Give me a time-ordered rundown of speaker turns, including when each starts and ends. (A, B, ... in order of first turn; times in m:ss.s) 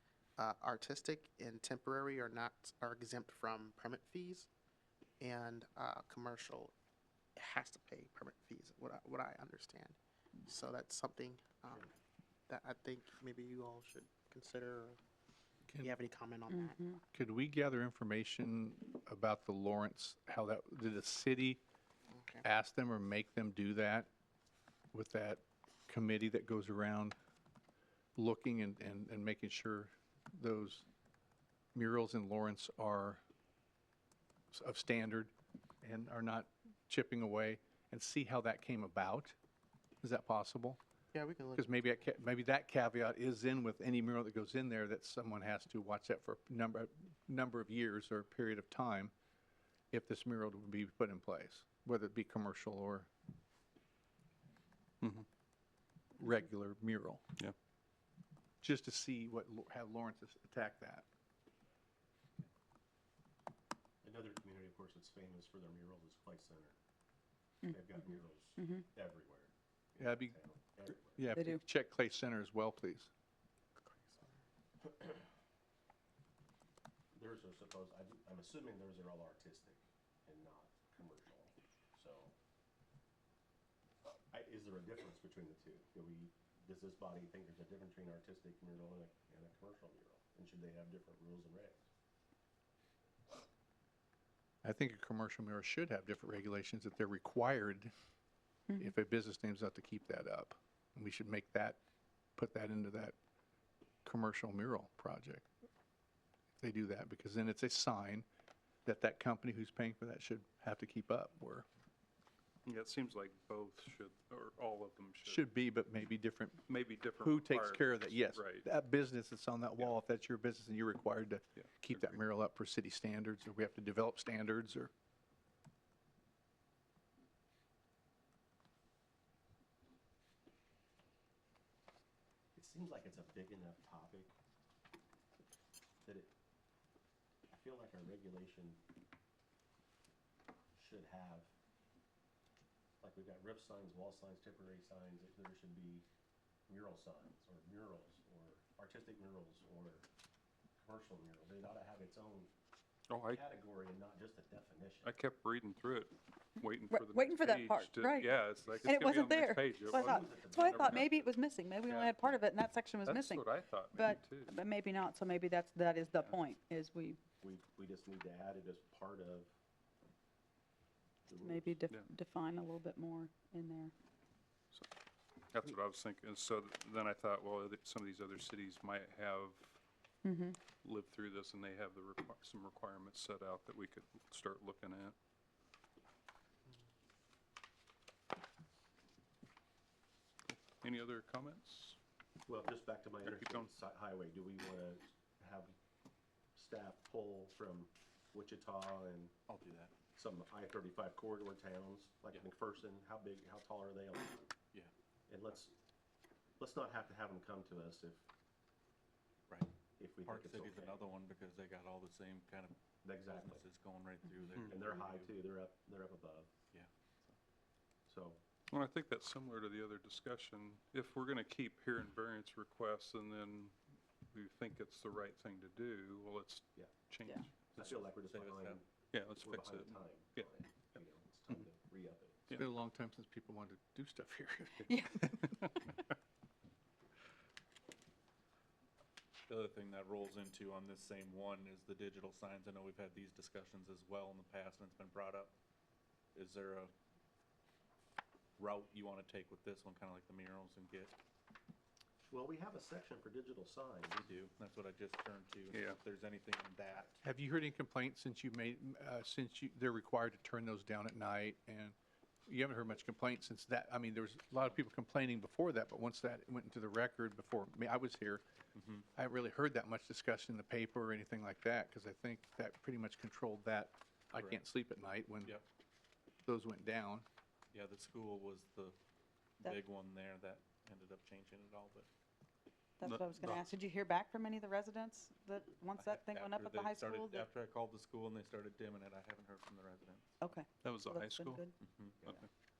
0:00.4-0:04.5 A
0:05.2-0:06.7 A
0:07.4-0:11.9 A
0:12.5-0:15.0 A
0:15.8-0:16.8 A
0:16.5-0:17.0 B
0:17.1-0:21.6 C
0:22.1-0:22.4 A
0:22.4-0:24.1 C
0:24.9-0:27.2 C
0:28.2-0:30.8 C
0:31.7-0:33.2 C
0:34.5-0:39.4 C
0:40.0-0:40.8 C
0:41.1-0:41.8 A
0:41.6-0:49.1 C
0:49.9-0:53.1 C
0:56.2-0:57.2 C
0:58.6-1:01.1 C
1:04.0-1:06.8 D
1:07.6-1:08.9 B
1:07.7-1:11.3 D
1:10.0-1:10.4 C
1:11.0-1:13.1 C
1:11.3-1:11.6 B
1:13.8-1:14.4 A
1:14.8-1:15.2 D
1:17.1-1:22.3 D
1:24.3-1:31.8 D
1:34.6-1:37.9 C
1:38.7-1:38.9 B
1:38.8-1:41.8 C
1:42.4-1:43.2 C
1:44.0-1:45.5 C
1:46.6-1:48.3 C
1:48.8-1:51.7 C
1:52.6-1:55.4 E
1:55.3-1:56.6 C
1:56.7-1:58.7 E
1:57.2-2:04.9 C
2:01.6-2:02.2 E
2:12.6-2:14.3 D
2:16.0-2:16.3 D
2:17.5-2:18.8 D
2:20.7-2:21.5 D
2:23.0-2:26.0 D
2:26.7-2:30.1 D
2:30.8-2:32.5 D
2:33.1-2:33.4 E
2:33.3-2:35.1 D
2:35.0-2:41.1 E
2:36.9-2:47.2 B
2:39.9-2:41.3 D
2:41.9-2:42.2 E
2:43.1-2:44.6 E
2:47.4-2:49.5 D
2:51.3-2:51.8 D
2:51.4-2:53.9 B
2:55.5-2:59.8 E
3:00.2-3:00.6 B
3:00.7-3:05.2 E
3:10.5-3:12.0 E
3:12.5-3:15.7 D
3:13.2-3:13.7 E
3:16.6-3:19.4 D
3:19.5-3:19.9 F
3:20.1-3:24.5 D
3:25.3-3:25.7 D
3:26.6-3:28.2 D
3:29.5-3:35.3 F
3:30.0-3:31.0 D
3:33.0-3:33.7 D
3:34.6-3:36.5 D
3:36.7-3:37.4 F
3:38.1-3:38.4 D
3:38.7-3:43.8 E
3:44.3-3:47.6 E
3:47.7-3:52.5 D
3:47.7-3:48.8 F
3:49.1-3:50.5 E
3:52.5-3:55.5 C
3:54.9-3:55.3 B
3:55.4-3:55.9 E
3:59.5-4:05.5 F
4:06.3-4:06.9 F
4:08.6-4:11.2 F
4:12.3-4:14.3 D
4:14.2-4:17.2 F
4:15.7-4:16.0 E
4:17.2-4:22.0 C
4:22.5-4:28.4 C
4:28.7-4:29.1 F
4:29.2-4:35.6 C
4:34.3-4:34.6 F
4:36.5-4:37.3 C
4:37.7-4:39.0 F
4:39.6-4:42.1 F
4:43.0-4:47.5 B
4:43.0-4:43.7 E
4:46.0-4:50.6 F
4:50.4-4:51.7 B
4:50.8-4:51.7 E
4:51.8-4:52.4 F
4:52.2-4:52.5 E